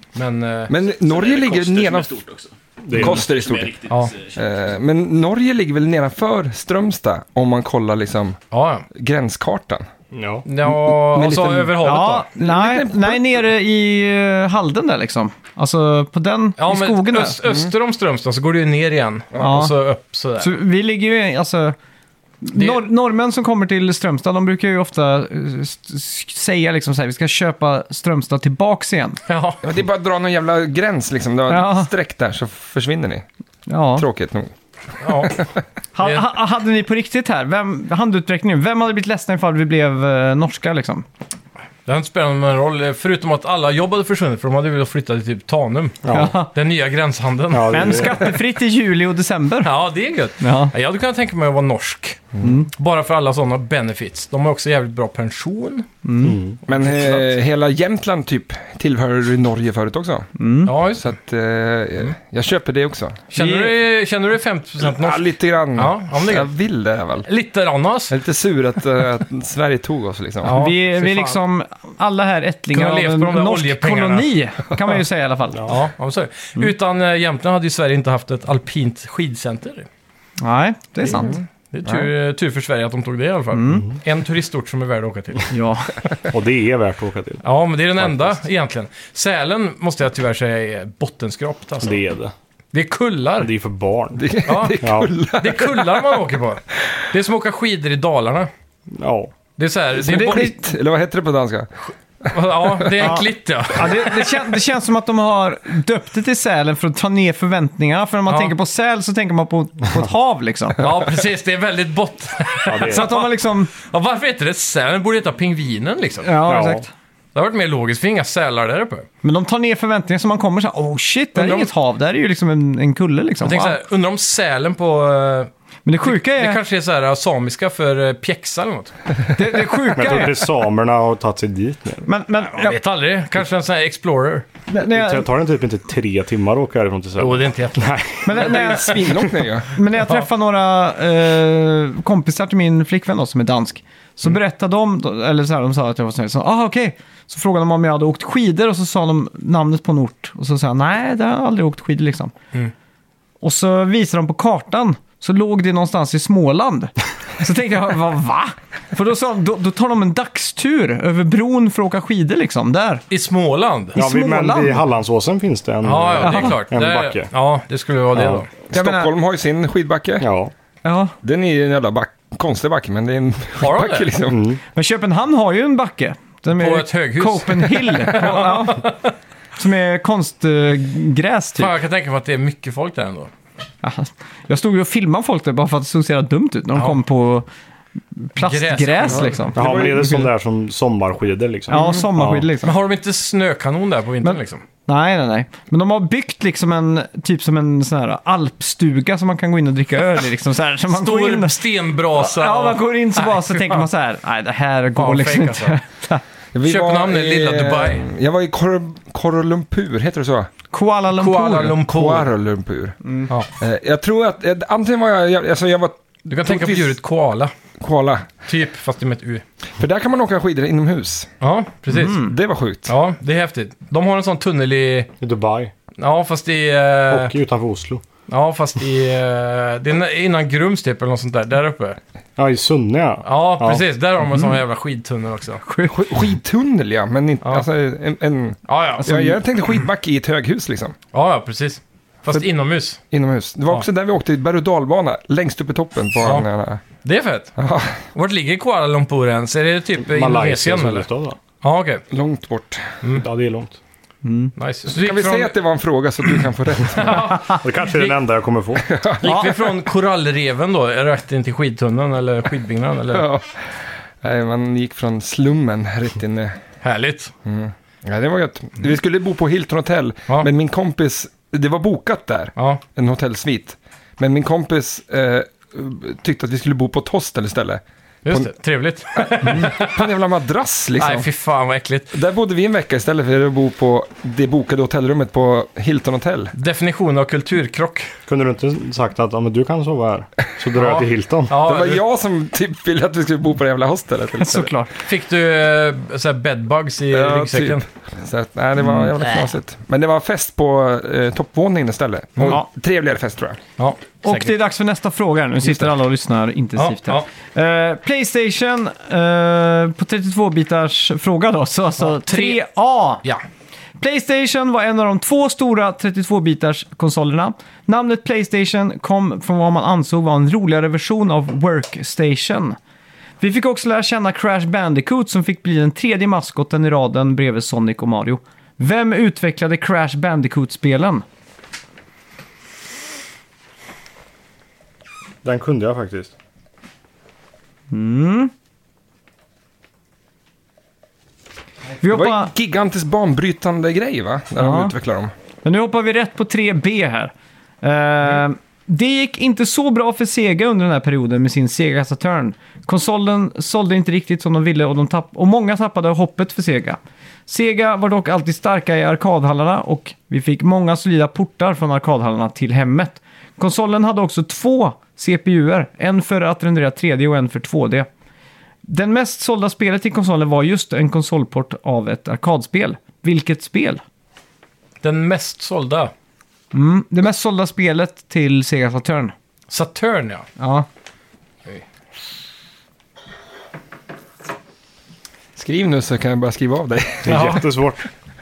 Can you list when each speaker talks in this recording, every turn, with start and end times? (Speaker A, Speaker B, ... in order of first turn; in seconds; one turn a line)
Speaker A: 0.1-0.7
Speaker B: 0.7-2.1
Speaker C: 0.9-4.5
Speaker D: 2.8-3.2
Speaker B: 2.9-3.7
Speaker B: 4.3-8.4
Speaker A: 8.5-8.8
Speaker B: 8.9-9.9
Speaker D: 10.1-10.4
Speaker A: 10.4-12.3
Speaker B: 10.6-11.8
Speaker E: 11.8-17.4
Speaker B: 12.3-13.3
Speaker A: 16.6-20.5
Speaker E: 19.4-19.7
Speaker E: 20.4-21.8
Speaker E: 22.4-29.2
Speaker A: 22.5-22.8
Speaker A: 29.3-29.6
Speaker B: 29.6-33.2
Speaker E: 31.5-31.9
Speaker E: 33.7-34.0
Speaker B: 34.0-34.5
Speaker A: 35.0-35.4
Speaker B: 35.2-35.5
Speaker E: 36.0-41.0
Speaker A: 41.9-48.2
Speaker D: 46.0-46.4
Speaker E: 46.1-46.5
Speaker D: 47.5-48.3
Speaker E: 47.7-49.7
Speaker A: 49.6-55.9
Speaker E: 50.4-50.7
Speaker E: 52.4-52.7
Speaker E: 56.0-56.4
Speaker D: 56.2-56.6
Speaker B: 56.7-60.3
Speaker A: 56.7-57.2
Speaker E: 60.4-60.7
Speaker A: 60.6-61.1
Speaker B: 60.9-63.2
Speaker A: 63.3-66.5
Speaker E: 63.3-63.8
Speaker B: 64.8-67.3
Speaker A: 67.2-68.1
Speaker B: 68.1-70.6
Speaker A: 70.4-71.4
Speaker E: 70.5-75.6
Speaker A: 72.7-74.3
Speaker A: 75.7-79.9
Speaker E: 80.4-81.4
Speaker B: 81.2-82.1
Speaker A: 81.7-85.5
Speaker E: 83.5-83.8
Speaker E: 85.5-86.0
Speaker D: 86.3-87.4
Speaker A: 87.4-92.0
Speaker D: 88.0-88.3
Speaker D: 91.8-92.3
Speaker A: 92.7-93.5
Speaker D: 93.4-94.2
Speaker B: 94.1-96.2
Speaker A: 94.5-98.5
Speaker D: 94.8-95.1
Speaker D: 98.9-99.3
Speaker A: 99.6-100.5
Speaker B: 100.0-101.7
Speaker E: 100.0-100.6
Speaker B: 102.2-103.2
Speaker A: 102.3-104.5
Speaker E: 103.0-110.8
Speaker A: 110.8-116.3
Speaker D: 112.7-113.1
Speaker E: 112.8-113.7
Speaker E: 116.2-116.9
Speaker D: 116.5-116.8
Speaker A: 117.3-119.1
Speaker E: 119.2-123.8
Speaker A: 121.3-121.7
Speaker A: 123.4-125.5
Speaker E: 125.8-126.6
Speaker A: 126.0-128.9
Speaker E: 129.3-130.5
Speaker D: 129.9-132.0
Speaker E: 132.0-132.8
Speaker A: 132.5-134.4
Speaker E: 134.7-135.3
Speaker D: 134.8-138.5
Speaker A: 137.2-137.9
Speaker E: 138.2-139.1
Speaker B: 138.3-139.7
Speaker E: 139.7-152.3
Speaker E: 153.4-163.0
Speaker A: 163.1-164.0
Speaker E: 163.9-164.8
Speaker D: 163.9-167.3
Speaker A: 165.8-168.5
Speaker E: 166.2-166.6
Speaker B: 168.7-170.2
Speaker E: 168.7-169.1
Speaker D: 170.2-170.5
Speaker E: 170.8-171.1
Speaker B: 171.2-174.5
Speaker A: 173.6-174.1
Speaker D: 174.3-174.6
Speaker E: 174.7-178.9
Speaker A: 176.6-179.0
Speaker E: 179.6-181.7
Speaker A: 181.6-183.3
Speaker E: 183.8-187.5
Speaker E: 188.2-190.3
Speaker A: 188.4-189.4
Speaker B: 189.1-190.1
Speaker D: 189.5-192.4
Speaker E: 191.7-192.7
Speaker A: 192.6-194.6
Speaker E: 194.2-206.2
Speaker A: 200.9-203.8
Speaker A: 204.9-205.8
Speaker B: 206.5-210.5
Speaker A: 206.6-208.1
Speaker E: 210.7-211.8
Speaker A: 211.2-212.3
Speaker B: 211.9-213.0
Speaker E: 213.0-213.3
Speaker B: 213.6-217.0
Speaker A: 216.3-217.5
Speaker B: 217.8-218.3
Speaker A: 218.4-219.4
Speaker B: 219.8-221.3
Speaker A: 221.4-222.2
Speaker E: 221.9-222.3
Speaker B: 222.1-222.9
Speaker A: 222.9-225.1
Speaker D: 225.2-225.7
Speaker A: 226.0-227.3
Speaker D: 227.1-228.0
Speaker A: 228.3-232.0
Speaker D: 232.4-233.8
Speaker A: 233.2-235.6
Speaker E: 235.6-236.0
Speaker B: 235.9-240.9
Speaker A: 238.7-239.3
Speaker E: 239.0-239.3
Speaker A: 241.1-243.0
Speaker B: 243.1-246.8
Speaker A: 247.0-247.5
Speaker B: 247.6-248.0
Speaker A: 248.1-251.1
Speaker D: 250.0-251.4
Speaker A: 251.6-252.0
Speaker B: 252.1-253.0
Speaker D: 253.2-253.8
Speaker E: 254.2-254.5
Speaker A: 254.6-255.5
Speaker B: 254.9-257.5
Speaker A: 256.9-258.2
Speaker D: 257.6-258.9
Speaker B: 258.9-259.5
Speaker A: 259.2-263.3
Speaker E: 259.2-259.5
Speaker B: 263.1-266.6
Speaker A: 266.8-267.3
Speaker B: 267.4-278.5
Speaker A: 278.2-280.0
Speaker B: 279.1-281.3
Speaker A: 281.0-282.1
Speaker B: 282.1-286.5
Speaker A: 286.5-288.1
Speaker D: 288.3-291.5
Speaker A: 290.7-292.0
Speaker B: 291.6-294.7
Speaker E: 294.4-294.9
Speaker A: 295.0-297.8
Speaker B: 297.1-303.6
Speaker A: 303.8-304.6
Speaker E: 304.2-313.2
Speaker A: 306.8-307.2
Speaker A: 312.0-312.6
Speaker E: 314.0-322.8
Speaker E: 323.4-331.2
Speaker D: 335.4-336.3
Speaker E: 337.9-338.5
Speaker E: 342.0-342.5
Speaker B: 342.0-345.3
Speaker E: 344.6-344.9
Speaker E: 345.6-368.1
Speaker E: 368.9-374.0
Speaker A: 375.0-376.1
Speaker E: 376.7-379.3
Speaker A: 379.7-380.4
Speaker E: 380.6-380.9
Speaker B: 385.6-387.6
Speaker D: 387.2-388.1
Speaker A: 387.3-387.6